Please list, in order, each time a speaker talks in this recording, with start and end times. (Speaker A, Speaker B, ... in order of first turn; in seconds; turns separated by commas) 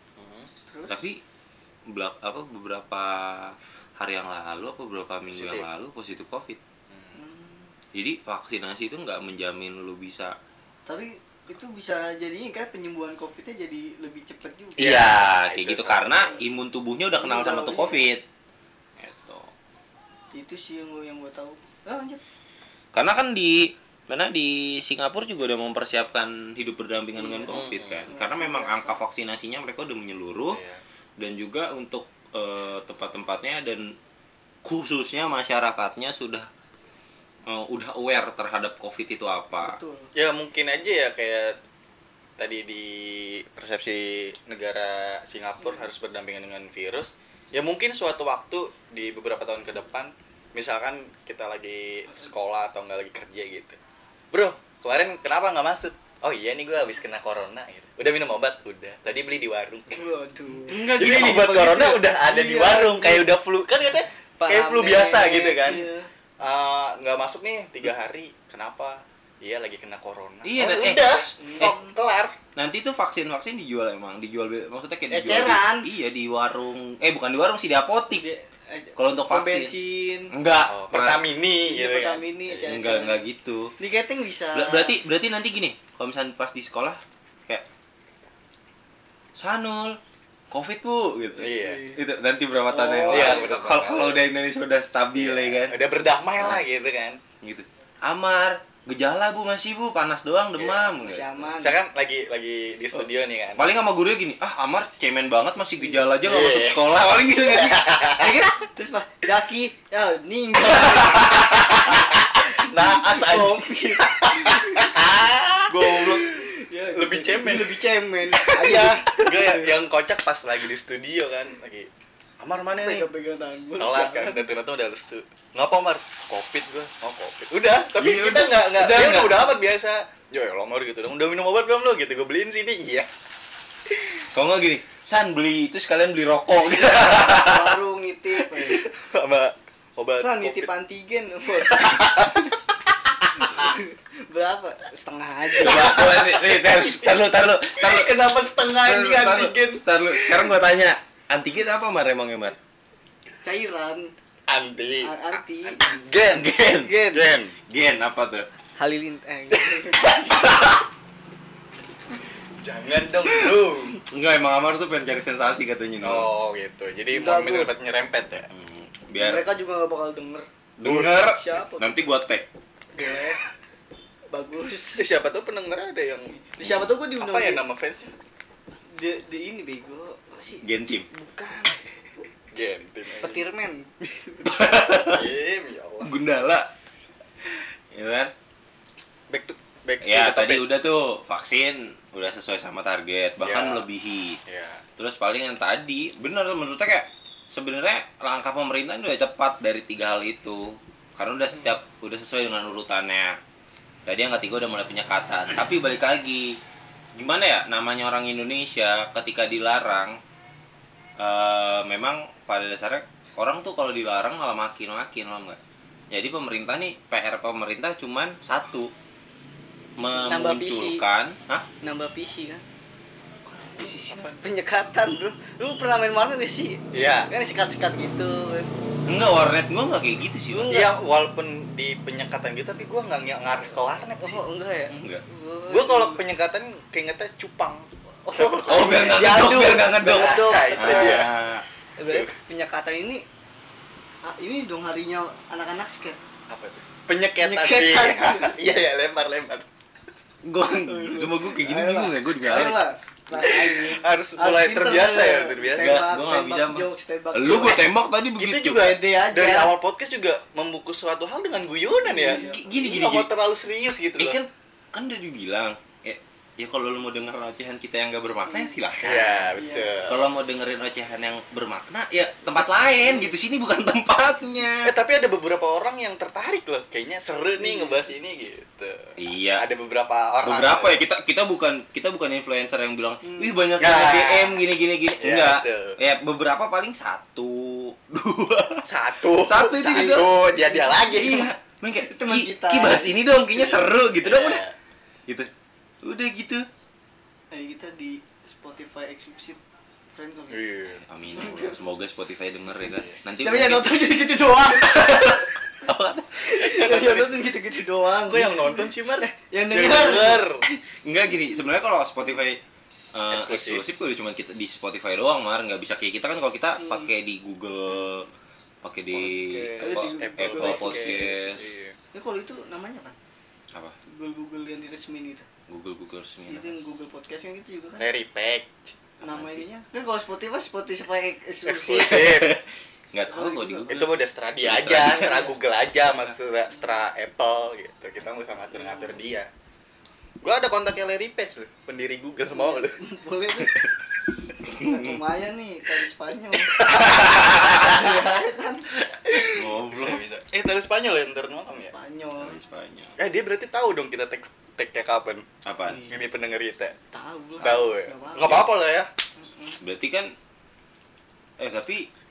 Speaker A: 0.2-0.5, Speaker B: 0.7-1.0, Speaker C: 0.9-1.2, Speaker C: 1.9-6.6, Speaker A: 5.3-5.7, Speaker A: 6.9-7.2, Speaker B: 7.1-7.7, Speaker C: 7.9-10.4, Speaker B: 10.9-14.9, Speaker A: 14.8-16.4, Speaker C: 14.8-18.2, Speaker B: 17.1-18.1, Speaker C: 19.0-19.5, Speaker B: 20.3-22.2, Speaker C: 22.9-30.6, Speaker B: 27.2-29.0, Speaker A: 27.5-28.1, Speaker A: 30.5-30.8, Speaker C: 31.2-34.0, Speaker C: 34.6-36.5, Speaker C: 37.5-39.8, Speaker B: 39.6-40.1, Speaker A: 40.1-41.6, Speaker A: 42.4-53.8, Speaker A: 54.3-60.1, Speaker B: 59.9-60.9, Speaker C: 60.7-62.0, Speaker A: 60.7-65.8, Speaker B: 62.1-63.3, Speaker B: 64.4-66.1, Speaker A: 66.4-72.3, Speaker C: 70.4-71.8, Speaker B: 71.4-71.9, Speaker C: 72.6-78.2, Speaker B: 75.1-75.9, Speaker B: 78.1-80.3, Speaker C: 79.0-79.7, Speaker C: 80.3-81.2, Speaker A: 80.7-82.6, Speaker B: 81.6-83.2, Speaker C: 82.6-83.7, Speaker B: 83.8-85.0, Speaker C: 84.5-87.7, Speaker C: 89.4-90.0, Speaker C: 90.5-95.8, Speaker A: 91.4-91.9, Speaker B: 91.6-92.0, Speaker B: 92.7-93.5, Speaker A: 93.1-94.2, Speaker A: 95.2-97.2, Speaker C: 97.4-101.4, Speaker A: 100.6-100.9, Speaker B: 101.0-101.8, Speaker A: 101.6-103.7, Speaker C: 103.6-108.5, Speaker A: 106.2-108.3, Speaker B: 108.2-115.0, Speaker C: 110.8-111.8, Speaker A: 111.1-117.8, Speaker C: 115.7-116.2, Speaker B: 116.2-119.8, Speaker A: 118.3-123.1, Speaker B: 122.8-124.5, Speaker A: 123.8-133.1, Speaker C: 128.0-129.5, Speaker C: 134.3-137.8, Speaker B: 137.0-138.9, Speaker A: 138.7-140.7, Speaker B: 140.2-142.3, Speaker A: 141.7-142.6, Speaker B: 143.4-146.1, Speaker C: 145.6-152.6, Speaker A: 145.6-147.2, Speaker A: 147.8-150.6, Speaker B: 153.4-154.1, Speaker A: 154.5-156.6, Speaker B: 155.0-155.8, Speaker C: 156.3-156.9, Speaker B: 156.8-157.3, Speaker A: 157.1-157.6, Speaker C: 157.7-158.5, Speaker B: 158.8-160.4, Speaker C: 160.0-160.8, Speaker A: 162.6-164.0, Speaker C: 164.0-166.3, Speaker A: 166.0-168.5, Speaker B: 167.1-167.7, Speaker C: 168.5-169.5, Speaker B: 169.2-170.5, Speaker C: 170.8-172.5, Speaker A: 170.8-171.3, Speaker B: 171.2-172.0, Speaker B: 172.9-173.4, Speaker B: 174.3-175.1, Speaker A: 174.9-176.4, Speaker B: 176.5-177.6, Speaker A: 177.2-178.1, Speaker B: 178.9-181.8, Speaker C: 180.6-181.1, Speaker A: 182.5-183.4, Speaker B: 183.2-183.9, Speaker C: 184.4-185.3, Speaker A: 184.9-186.2, Speaker C: 186.0-186.7, Speaker C: 187.5-188.3, Speaker A: 189.3-190.7, Speaker C: 190.0-194.4, Speaker A: 193.4-193.9, Speaker A: 194.5-194.8, Speaker C: 195.0-203.4, Speaker C: 204.1-206.6, Speaker C: 207.2-210.2, Speaker C: 211.2-215.6, Speaker C: 216.1-218.9, Speaker C: 220.0-221.7, Speaker B: 220.2-221.0, Speaker B: 221.8-222.6, Speaker C: 223.5-224.3, Speaker B: 224.2-228.8, Speaker A: 226.9-227.3, Speaker C: 229.1-230.8, Speaker B: 230.5-231.0, Speaker A: 230.7-234.4, Speaker B: 234.2-236.2, Speaker C: 234.9-235.2, Speaker A: 235.7-241.4, Speaker B: 238.2-241.3, Speaker C: 238.7-241.7, Speaker B: 242.0-243.2, Speaker B: 244.2-246.2, Speaker A: 246.5-249.7, Speaker B: 247.4-248.6, Speaker C: 250.4-252.8, Speaker B: 250.8-257.9, Speaker A: 253.3-256.1, Speaker C: 255.8-258.9, Speaker A: 258.4-264.4, Speaker B: 258.7-259.7, Speaker B: 262.1-262.6, Speaker C: 262.1-263.3, Speaker C: 264.2-269.5, Speaker A: 269.0-270.2, Speaker B: 269.6-269.9, Speaker C: 270.1-274.9, Speaker A: 274.8-281.0, Speaker B: 277.6-278.1, Speaker C: 279.2-279.6, Speaker C: 280.4-288.9, Speaker B: 283.2-283.6, Speaker A: 283.8-284.6, Speaker A: 285.2-286.0, Speaker A: 288.9-291.5, Speaker C: 289.4-290.3, Speaker B: 289.8-291.4, Speaker C: 291.1-294.6, Speaker B: 292.0-293.1, Speaker A: 293.6-294.7, Speaker C: 296.0-296.7, Speaker B: 297.5-299.6, Speaker B: 300.1-300.8, Speaker A: 300.5-301.0, Speaker C: 300.9-303.9, Speaker B: 301.3-301.8, Speaker B: 303.4-305.5, Speaker C: 304.8-307.1, Speaker B: 306.4-310.5, Speaker A: 306.7-307.4, Speaker A: 308.3-310.6, Speaker C: 310.6-312.6, Speaker C: 313.1-318.3, Speaker A: 313.3-313.9, Speaker B: 316.8-317.1, Speaker C: 318.8-321.7, Speaker A: 319.1-322.0, Speaker B: 319.8-321.3, Speaker B: 322.1-323.2, Speaker B: 324.1-325.5, Speaker C: 325.7-326.8, Speaker B: 326.5-328.1, Speaker A: 328.0-328.9, Speaker B: 329.2-332.5, Speaker C: 329.2-329.6, Speaker A: 331.7-332.5, Speaker C: 332.1-335.5, Speaker B: 333.3-333.9, Speaker A: 333.9-339.5, Speaker B: 335.2-335.5, Speaker B: 338.8-339.1, Speaker A: 340.4-343.0, Speaker B: 342.5-343.8, Speaker B: 344.6-348.9, Speaker C: 344.8-345.2, Speaker C: 346.7-348.0, Speaker C: 349.2-350.2, Speaker A: 349.3-351.9, Speaker B: 351.9-352.6, Speaker C: 352.4-353.1, Speaker A: 353.2-355.5, Speaker C: 355.6-356.0, Speaker B: 355.9-356.2, Speaker A: 356.1-356.9, Speaker B: 357.1-358.7, Speaker A: 357.6-359.1, Speaker B: 359.4-359.8, Speaker C: 359.8-360.3, Speaker C: 361.6-362.1